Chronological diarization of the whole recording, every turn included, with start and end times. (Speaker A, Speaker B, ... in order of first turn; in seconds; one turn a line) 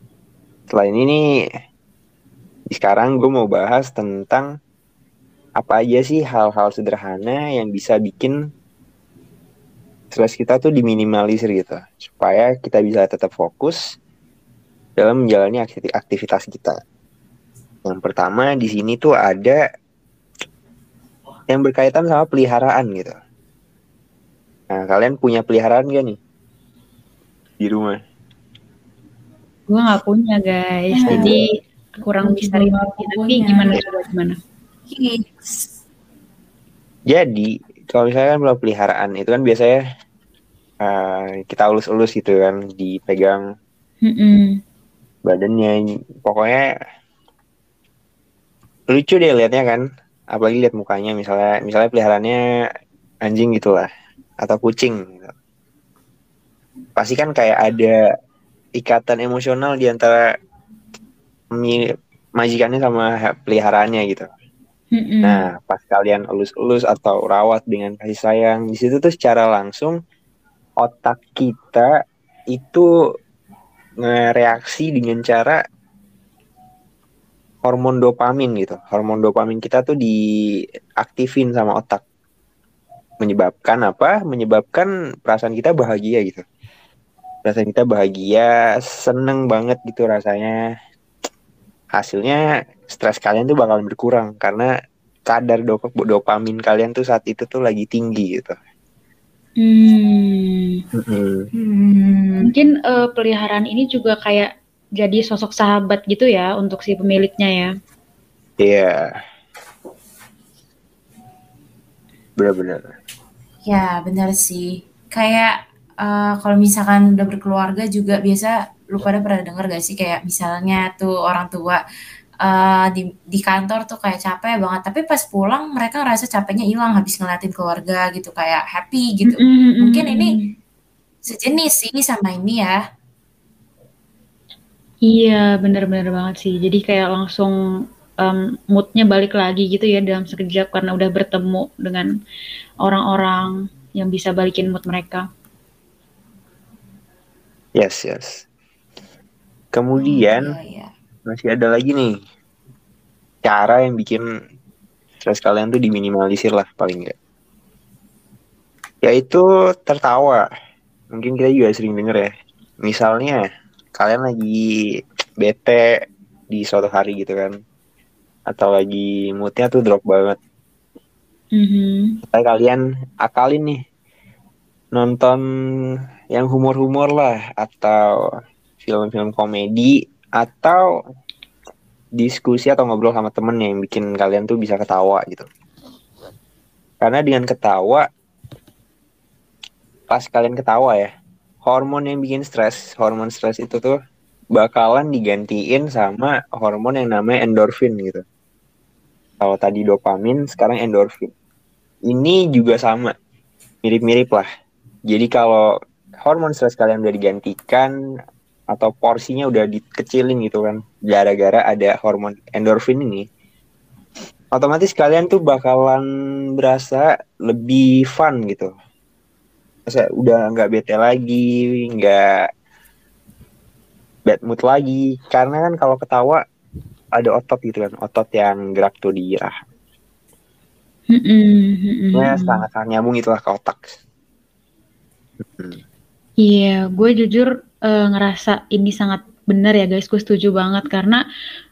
Speaker A: 0.7-1.2
Speaker A: 2.7-4.5
Speaker A: 5.6-8.4
Speaker A: 10.1-13.9
Speaker A: 15.0-16.8
Speaker A: 17.9-19.6
Speaker A: 21.5-23.2
Speaker A: 24.7-26.2
Speaker A: 27.6-28.0
Speaker B: 29.7-31.5
Speaker C: 30.9-31.4
Speaker A: 31.1-31.4
Speaker B: 32.0-34.4
Speaker C: 32.2-34.0
Speaker C: 34.9-35.7
Speaker A: 37.1-39.8
Speaker A: 40.8-43.5
Speaker B: 44.0-44.6
Speaker A: 45.3-46.6
Speaker A: 48.9-52.4
Speaker A: 53.2-53.9
Speaker A: 54.4-55.3
Speaker A: 57.0-58.0
Speaker A: 58.8-60.2
Speaker A: 61.5-61.8
Speaker A: 62.4-64.3
Speaker B: 64.9-65.4
Speaker A: 65.2-70.0
Speaker A: 70.8-71.9
Speaker A: 72.5-72.9
Speaker A: 74.0-75.6
Speaker A: 77.7-80.2
Speaker A: 81.0-82.0
Speaker A: 83.2-86.4
Speaker A: 87.5-90.5
Speaker A: 91.9-94.7
Speaker A: 95.3-98.6
Speaker B: 99.6-100.8
Speaker A: 101.0-101.5
Speaker C: 101.5-102.5
Speaker B: 102.4-107.7
Speaker A: 108.6-109.1
Speaker A: 112.4-112.9
Speaker C: 113.7-121.8
Speaker C: 122.4-130.4
Speaker B: 129.3-130.5
Speaker C: 131.3-132.8
Speaker B: 135.1-137.6
Speaker B: 138.2-142.1
Speaker B: 142.8-145.2
Speaker A: 147.8-148.4
Speaker A: 149.7-150.6
Speaker C: 150.0-150.9
Speaker A: 151.3-152.2
Speaker A: 153.4-154.3
Speaker A: 155.2-157.2
Speaker A: 159.0-160.5
Speaker A: 161.1-162.3
Speaker A: 162.8-163.4
Speaker A: 164.0-164.7
Speaker A: 165.4-166.0
Speaker A: 166.5-167.6
Speaker A: 168.5-170.4
Speaker B: 171.6-172.2
Speaker A: 172.3-173.8
Speaker A: 174.9-175.4
Speaker A: 176.3-178.2
Speaker A: 178.8-180.9
Speaker A: 182.2-185.5
Speaker A: 187.0-188.1
Speaker A: 190.1-191.1
Speaker A: 191.6-194.0
Speaker A: 194.6-198.2
Speaker A: 199.4-201.3
Speaker A: 202.1-203.2
Speaker A: 203.8-204.5
Speaker A: 205.1-207.9
Speaker A: 208.7-213.3
Speaker A: 214.5-216.1
Speaker A: 216.6-218.7
Speaker A: 219.9-222.5
Speaker A: 224.3-226.4
Speaker A: 227.2-229.6
Speaker B: 231.1-232.6
Speaker A: 232.2-234.0
Speaker A: 235.4-235.8
Speaker B: 236.4-241.2